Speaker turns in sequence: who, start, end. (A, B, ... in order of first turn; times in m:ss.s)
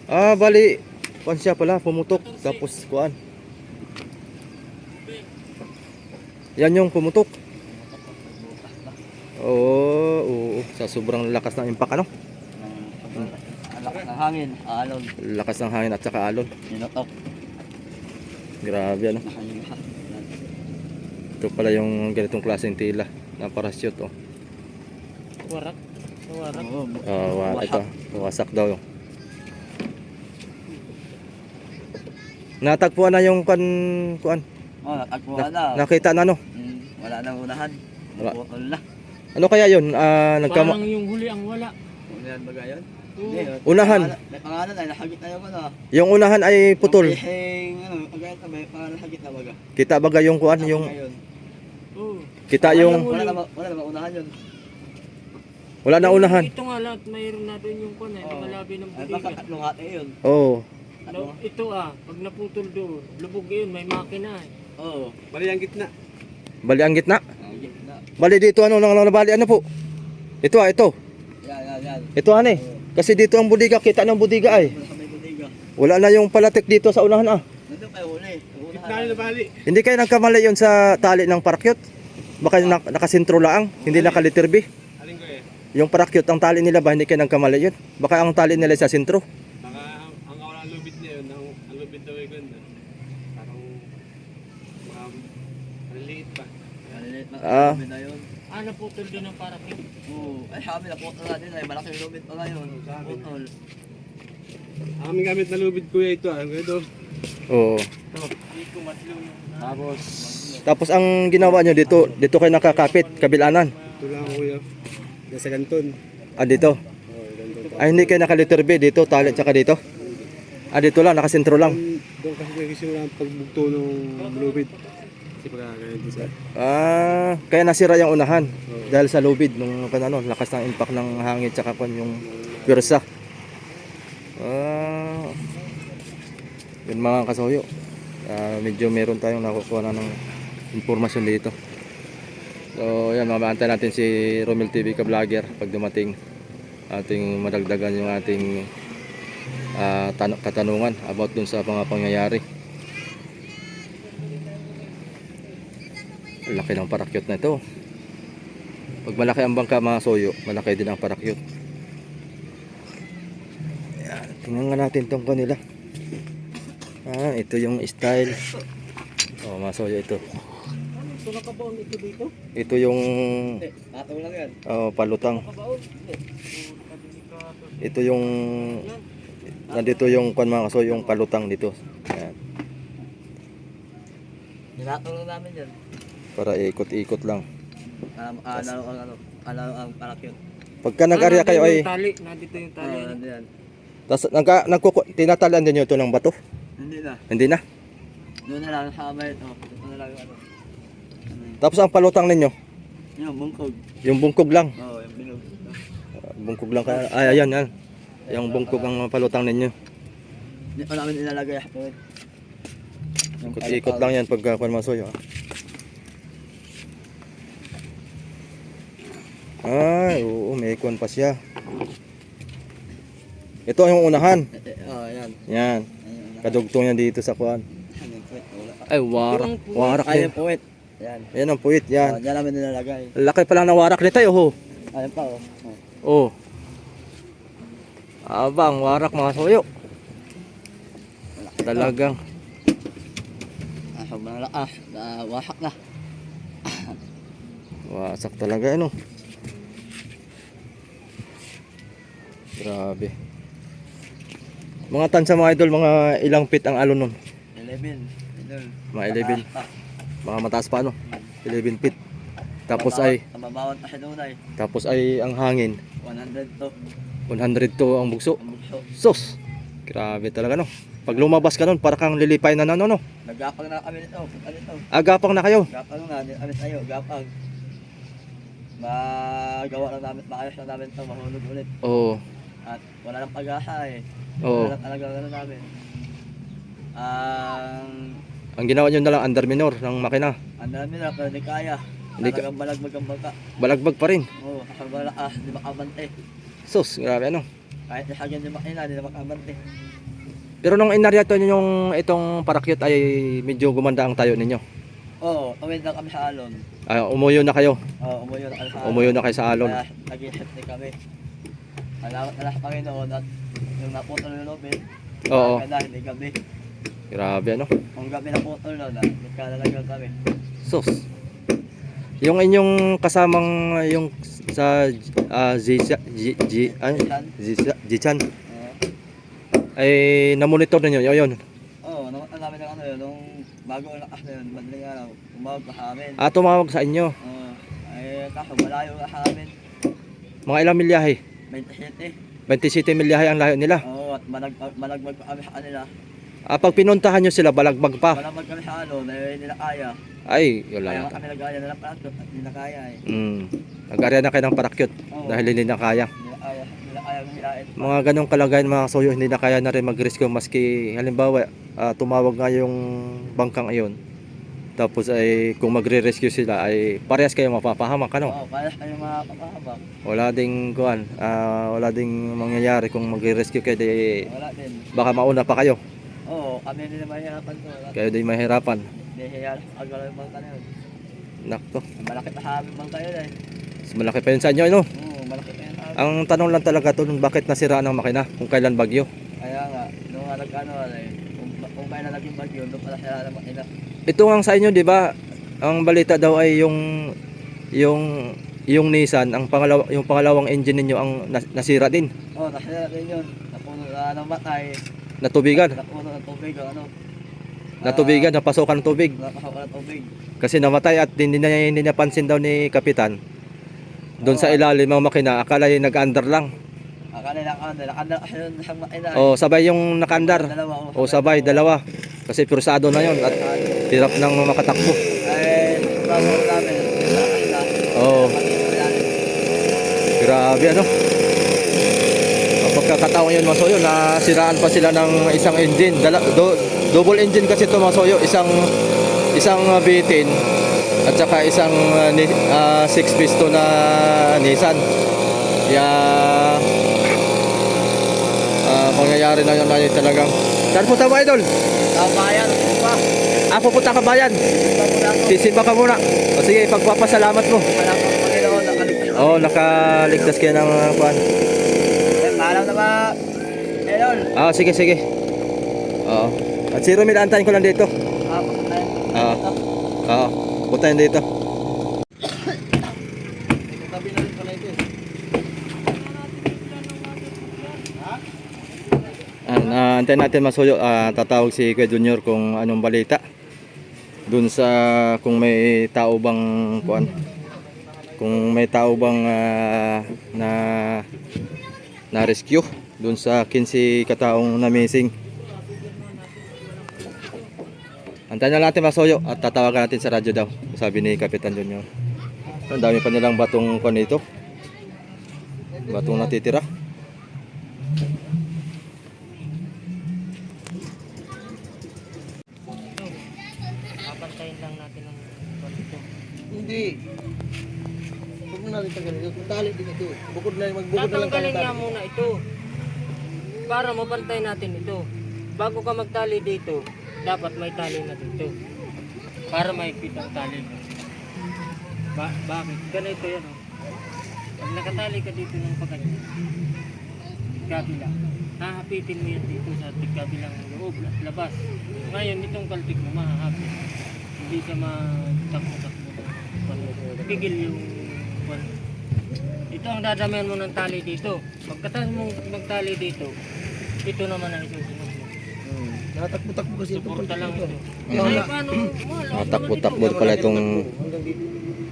0:00.1-0:03.2 A
0:02.1-0:02.6 B
0:06.6-0:07.3 A
0:07.6-0:09.0 C
0:09.4-0:12.1 A
0:12.6-0:15.1 C
0:15.2-0:16.5 A
0:16.7-0:17.1 C
0:18.6-0:19.2 A
0:19.2-0:20.3 C
0:21.4-0:24.1 A
0:25.4-0:25.8 B
0:26.3-0:26.7 B
0:26.5-0:27.9 C
0:27.1-0:28.8 A
0:32.6-0:34.4 A
0:34.8-0:35.8 C
0:35.4-0:36.4 A
0:36.5-0:38.8 C
0:39.4-0:40.8 A
0:40.5-0:41.7 B
0:42.1-0:45.8 C
0:43.2-0:43.6 B
0:43.7-0:44.2 A
0:45.9-0:47.2 A
0:46.8-0:49.6 C
0:49.8-0:50.9 A
0:50.6-0:51.2 C
0:52.0-0:53.4 B
0:52.5-0:53.1 A
0:52.6-0:54.3 C
0:55.8-0:56.5 A
0:56.0-0:59.4 B
0:58.2-1:00.1 C
1:00.2-1:00.6 A
1:01.0-1:01.4 C
1:01.1-1:04.5 B
1:04.8-1:05.2 C
1:05.3-1:05.9 D
1:06.6-1:07.2 A
1:07.4-1:08.0 C
1:08.2-1:09.6 A
1:10.4-1:10.9 A
1:11.4-1:12.8 C
1:12.2-1:14.7 A
1:14.4-1:15.5 C
1:15.8-1:17.4 A
1:17.7-1:19.4 C
1:18.7-1:19.5 D
1:19.7-1:21.8 A
1:22.4-1:24.7 A
1:23.8-1:24.3 D
1:25.0-1:25.4 D
1:25.8-1:29.2 A
1:29.6-1:32.6 D
1:33.4-1:33.6 D
1:34.9-1:35.2 D
1:35.9-1:36.5 D
1:36.9-1:38.2 C
1:37.4-1:37.8 A
1:38.5-1:39.8 B
1:40.1-1:43.5 C
1:42.9-1:43.3 D
1:45.0-1:46.8 D
1:47.5-1:47.9 A
1:48.4-1:49.8 B
1:50.3-1:50.6 C
1:50.6-1:53.7 A
1:51.9-1:54.4 B
1:54.0-1:54.6 D
1:55.3-1:56.0 D
1:56.4-1:56.8 A
1:57.1-1:58.3 D
1:57.6-1:58.1 B
1:57.8-1:59.8 A
1:59.1-1:59.4 D
2:00.0-2:00.3 D
2:00.7-2:01.8 A
2:01.6-2:04.8 D
2:04.2-2:04.7 B
2:05.4-2:06.3 D
2:06.6-2:13.0 A
2:08.7-2:09.0 D
2:12.2-2:13.0 D
2:14.4-2:15.4 A
2:16.9-2:17.7 A
2:18.3-2:20.2 A
2:20.7-2:21.5 A
2:22.8-2:26.2 A
2:26.9-2:28.7 A
2:29.8-2:32.4 A
2:36.5-2:37.6 A
2:39.1-2:41.4 A
2:44.0-2:45.6 A
2:47.1-2:48.4 A
2:49.4-2:50.2 A
2:50.9-2:52.3 B
2:52.6-2:53.6 A
2:53.6-2:54.5 C
2:54.7-2:55.4 A
2:55.2-2:55.8 B
2:56.5-2:57.9 B
2:57.8-2:58.8 A
2:58.6-2:59.0 B
2:59.7-3:02.4 A
2:59.7-3:00.0 C
3:04.8-3:05.7 C
3:06.4-3:07.4 A
3:07.9-3:10.4 C
3:10.8-3:11.9 A
3:11.1-3:13.2 B
3:12.8-3:13.5 C
3:14.1-3:16.4 A
3:16.8-3:17.2 C
3:17.3-3:17.6 A
3:18.5-3:20.4 C
3:21.3-3:21.6 C
3:21.6-3:22.5 A
3:23.2-3:23.8 C
3:24.0-3:24.7 A
3:24.8-3:25.8 C
3:26.2-3:27.7 A
3:26.8-3:27.4 C
3:28.2-3:29.0 C
3:28.3-3:29.7 A
3:30.8-3:32.0 C
3:33.4-3:34.1 C
3:33.5-3:35.2 A
3:39.6-3:41.4 A
3:43.7-3:44.5 A
3:44.6-3:45.4 C
3:45.5-3:45.9 A
3:46.0-3:46.6 C
3:46.4-3:47.6 A
3:48.0-3:48.9 C
3:48.9-3:50.3 A
3:49.3-3:49.8 B
3:49.8-3:51.3 C
3:51.3-3:52.2 A
3:52.0-3:53.1 C
3:53.2-3:54.5 A
3:54.9-3:55.8 C
3:56.0-3:56.3 A
3:58.3-3:59.7 A
4:01.4-4:02.0 C
4:01.6-4:02.2 A
4:04.0-4:05.8 C
4:06.7-4:07.0 C
4:07.9-4:08.9 A
4:12.6-4:13.1 A
4:14.9-4:17.2 A
4:17.6-4:19.7 C
4:18.9-4:19.4 A
4:20.2-4:22.0 A
4:21.1-4:21.3 C
4:22.7-4:23.2 A
4:22.7-4:24.4 C
4:24.6-4:25.8 A
4:26.0-4:26.7 C
4:27.3-4:28.4 A
4:28.4-4:28.9 C
4:29.0-4:29.4 A
4:29.9-4:33.0 A
4:33.3-4:34.8 C
4:34.9-4:35.7 A
4:35.7-4:37.3 C
4:38.8-4:41.7 C
4:41.8-4:42.2 A
4:42.7-4:44.0 C
4:44.4-4:44.7 A
4:44.6-4:45.7 C
4:47.0-4:48.2 C
4:48.6-4:50.4 A
4:50.6-4:53.4 C
4:52.2-4:52.4 A
4:53.6-4:54.3 A
4:54.4-4:56.1 C
4:56.7-4:57.5 A
4:57.9-4:59.6 C
5:00.6-5:04.6 A
5:05.2-5:06.6 C
5:06.9-5:07.8 A
5:08.0-5:10.9 C
5:08.8-5:09.8 A
5:12.0-5:13.2 C
5:13.8-5:16.4 C
5:15.3-5:15.6 A
5:17.1-5:17.7 A
5:18.0-5:20.1 C
5:20.6-5:21.0 A
5:22.2-5:28.2 A
5:26.6-5:27.3 C
5:28.5-5:28.8 C
5:29.8-5:31.4 A
5:31.8-5:36.2 C
5:36.2-5:37.1 A
5:37.2-5:39.5 C
5:40.5-5:41.2 A
5:41.5-5:42.2 C
5:42.5-5:43.8 A
5:43.8-5:45.9 C
5:46.5-5:48.2 A
5:48.1-5:50.0 C
5:50.3-5:51.2 A
5:50.9-5:53.0 C
5:53.1-5:56.1 A
5:55.1-5:55.5 C
5:56.2-5:58.0 C
5:57.8-6:04.0 A
6:04.8-6:08.4 A
6:08.2-6:09.8 C
6:10.0-6:14.2 A
6:14.3-6:14.9 C
6:14.9-6:15.8 A
6:16.3-6:18.0 C
6:18.0-6:18.9 A
6:19.0-6:20.7 C
6:21.4-6:21.8 A
6:22.0-6:23.3 C
6:23.9-6:24.9 A
6:25.0-6:26.1 C
6:26.0-6:29.1 A
6:29.4-6:33.7 C
6:34.1-6:35.1 A
6:35.6-6:36.8 A
6:37.8-6:38.1 A
6:38.7-6:42.1 A
6:42.4-6:44.8 C
6:45.2-6:45.8 A
6:45.5-6:46.9 C
6:47.8-6:48.3 C
6:47.8-6:49.2 A
6:49.2-6:50.1 C
6:50.4-6:53.2 A
6:54.2-6:56.5 A
6:54.2-6:54.6 C
6:57.1-6:59.3 C
6:59.2-7:03.3 A
7:00.1-7:01.6 C
7:02.9-7:03.9 C
7:03.9-7:05.0 A
7:05.3-7:09.3 C
7:08.0-7:08.4 A
7:10.2-7:10.9 A
7:12.6-7:18.5 A
7:19.4-7:20.3 A
7:21.1-7:24.8 A
7:25.7-7:26.6 A
7:28.7-7:31.5 A
7:32.0-7:33.0 C
7:33.5-7:34.4 A
7:34.5-7:35.4 C
7:35.3-7:37.7 A
7:37.7-7:39.6 C
7:39.2-7:41.2 A
7:42.2-7:43.1 C
7:43.9-7:44.3 C
7:44.4-7:45.0 A
7:46.1-7:47.9 A
7:48.3-7:49.6 C
7:49.1-7:49.4 A
7:50.1-7:51.2 A
7:53.7-7:54.8 E
7:55.8-7:57.9 B
7:59.5-8:03.2 A
8:04.3-8:07.1 A
8:08.0-8:08.3 E
8:08.2-8:11.0 A
8:12.1-8:15.1 A
8:15.2-8:17.5 B
8:18.3-8:21.9 A
8:22.7-8:24.2 A
8:25.7-8:26.3 E
8:25.9-8:26.6 A
8:32.9-8:33.2 B
8:34.1-8:36.0 B
8:36.5-8:37.0 E
8:38.5-8:42.0 E
8:40.9-8:42.3 B
8:43.7-8:45.0 B
8:45.6-8:48.5 B
8:49.5-8:50.8 B
8:52.2-8:53.6 B
8:54.6-8:56.3 B
8:57.6-9:03.8 B
9:04.4-9:08.7 B
9:06.8-9:07.5 E
9:09.7-9:13.3 B
9:14.0-9:15.3 B
9:15.6-9:18.9 E
9:16.9-9:20.3 B
9:18.1-9:18.5 A
9:19.3-9:20.8 A
9:19.9-9:21.5 E